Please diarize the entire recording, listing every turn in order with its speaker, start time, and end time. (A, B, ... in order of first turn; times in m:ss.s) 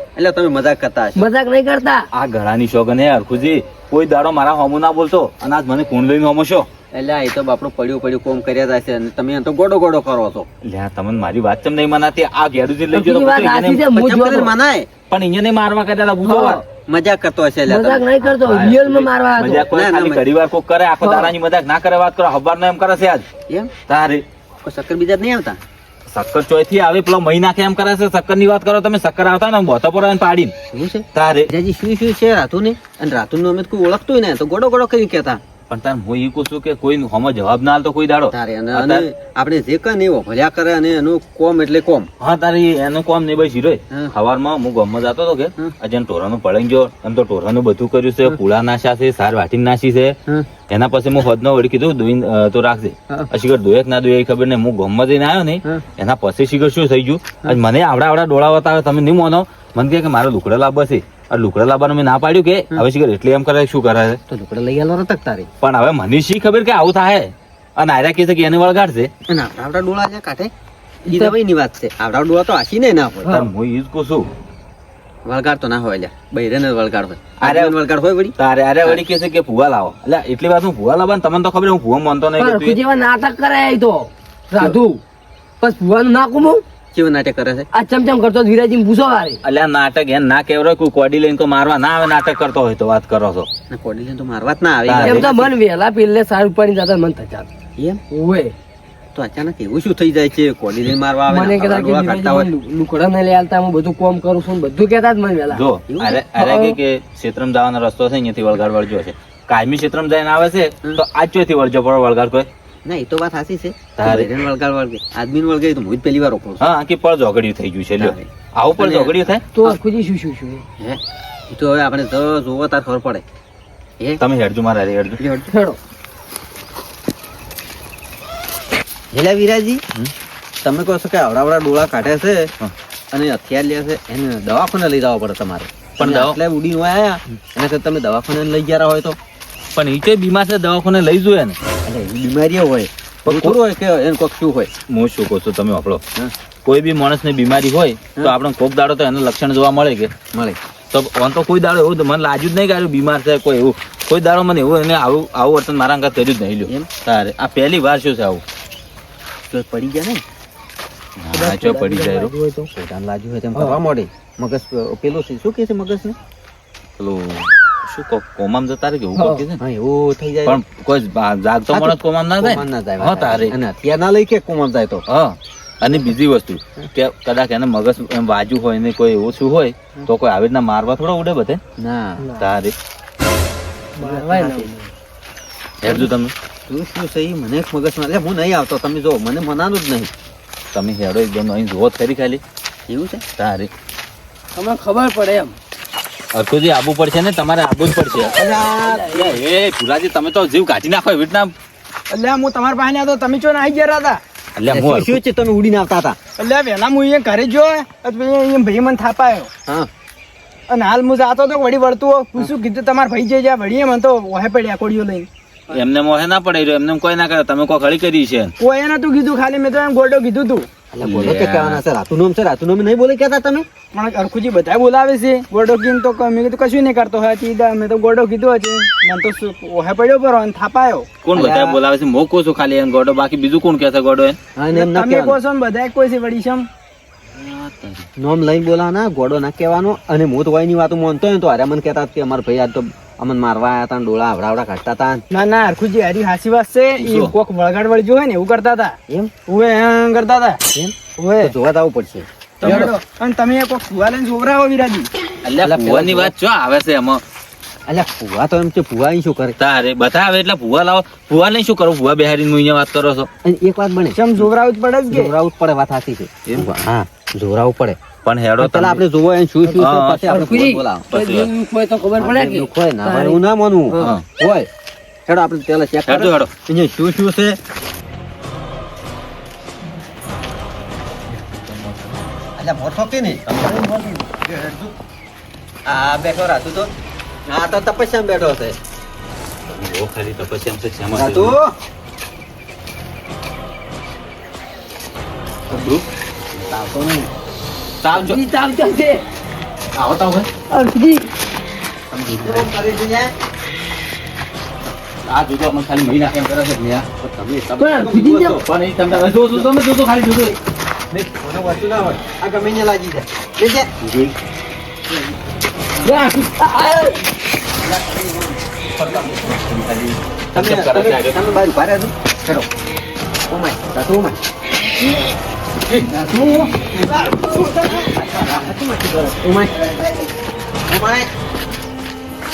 0:00.2-0:01.2 A
0:01.2-0:02.1 B
0:02.1-0:06.7 C
0:06.9-0:10.5 A
0:10.6-0:13.8 C
0:12.9-0:14.5 B
0:13.9-0:14.9 A
0:15.1-0:16.6 C
0:16.2-0:16.6 B
0:16.4-0:18.3 A
0:17.7-0:19.7 B
0:18.2-0:23.2 C
0:19.7-0:20.2 A
0:23.5-0:23.7 A
0:23.9-0:24.2 C
0:24.6-0:25.6 A
0:26.1-0:30.5 C
0:30.7-0:35.4 A
0:31.2-0:31.5 C
0:35.7-0:39.0 C
0:38.3-0:42.1 A
0:42.2-0:50.2 C
0:50.7-1:04.2 C
1:04.3-1:05.5 A
1:05.6-1:09.1 C
1:09.3-1:10.5 A
1:11.1-1:11.3 B
1:11.1-1:13.4 A
1:13.3-1:14.3 C
1:15.2-1:19.0 A
1:17.4-1:17.8 C
1:18.4-1:22.8 C
1:22.4-1:25.0 B
1:25.6-1:26.6 B
1:26.9-1:27.7 A
1:27.7-1:29.4 B
1:29.4-1:33.5 C
1:33.7-1:35.5 A
1:34.9-1:35.3 C
1:35.0-1:37.5 B
1:38.1-1:38.5 B
1:39.2-1:42.5 A
1:41.3-1:45.6 B
1:45.5-1:52.5 C
1:45.9-1:46.2 A
1:46.4-1:46.8 B
1:52.8-1:56.6 A
1:54.0-1:54.3 C
1:56.6-1:59.5 C
1:58.0-1:59.8 A
1:59.5-2:00.6 B
2:00.8-2:03.2 A
2:04.2-2:05.2 C
2:05.2-2:05.5 A
2:05.5-2:05.8 B
2:09.1-2:09.8 A
2:10.6-2:12.5 A
2:13.1-2:19.2 A
2:16.0-2:16.4 C
2:19.8-2:21.6 C
2:21.8-2:24.7 A
2:23.3-2:23.6 C
2:24.9-2:26.0 C
2:26.6-2:30.1 C
2:30.3-2:30.6 A
2:30.9-2:38.4 C
2:39.5-2:40.2 A
2:41.2-2:42.3 C
2:41.3-2:42.7 B
2:42.8-2:46.2 A
2:47.0-2:49.6 C
2:49.2-2:49.4 B
2:49.6-2:50.6 A
2:50.4-2:53.5 C
2:51.7-2:55.0 A
2:55.1-3:01.6 C
3:01.8-3:02.3 A
3:02.2-3:02.5 B
3:02.4-3:02.7 C
3:04.0-3:04.9 B
3:04.0-3:04.7 A
3:05.8-3:06.3 C
3:06.7-3:10.1 A
3:10.7-3:12.4 C
3:12.9-3:13.2 A
3:13.4-3:13.7 C
3:14.6-3:15.6 B
3:16.3-3:18.4 C
3:18.4-3:19.0 A
3:18.4-3:19.3 B
3:19.1-3:21.5 C
3:22.1-3:24.2 D
3:24.6-3:25.2 C
3:24.7-3:26.2 A
3:26.4-3:29.5 D
3:30.7-3:35.3 D
3:35.7-3:38.5 C
3:38.6-3:40.7 D
3:40.9-3:43.7 A
3:41.0-3:41.8 C
3:43.9-3:51.1 D
3:51.2-3:54.4 C
3:51.3-3:51.8 A
3:54.6-3:55.4 A
3:54.7-3:56.7 D
3:57.4-3:58.1 C
3:58.2-4:05.2 A
4:05.3-4:08.9 D
4:07.0-4:07.3 C
4:09.1-4:09.3 A
4:09.5-4:10.6 D
4:10.8-4:12.9 A
4:11.2-4:11.5 D
4:12.6-4:15.1 D
4:15.4-4:17.2 C
4:15.6-4:16.3 A
4:17.9-4:19.6 A
4:19.6-4:23.3 C
4:23.4-4:24.3 A
4:24.2-4:25.3 D
4:25.1-4:28.0 A
4:28.2-4:29.0 C
4:28.6-4:31.1 A
4:29.8-4:30.5 C
4:30.3-4:34.1 B
4:31.1-4:31.5 C
4:32.2-4:34.7 A
4:35.3-4:37.6 A
4:36.1-4:36.5 C
4:41.3-4:42.2 C
4:42.6-4:44.9 A
4:43.5-4:44.2 C
4:45.9-4:46.9 A
4:47.5-4:48.8 A
4:49.7-4:51.6 C
4:51.1-4:51.7 A
4:55.7-4:56.0 C
4:56.5-4:57.3 A
4:58.0-4:58.4 C
4:58.1-4:59.2 B
5:00.0-5:00.5 C
5:00.7-5:01.3 B
5:02.1-5:02.7 C
5:02.4-5:03.3 A
5:05.2-5:07.1 C
5:07.2-5:08.6 A
5:07.8-5:08.6 B
5:08.3-5:10.6 C
5:11.1-5:13.9 A
5:14.0-5:14.4 C
5:16.0-5:17.2 B
5:17.8-5:18.6 A
5:18.9-5:21.4 C
5:20.6-5:22.7 A
5:23.5-5:24.4 A
5:26.0-5:29.9 A
5:30.9-5:31.3 A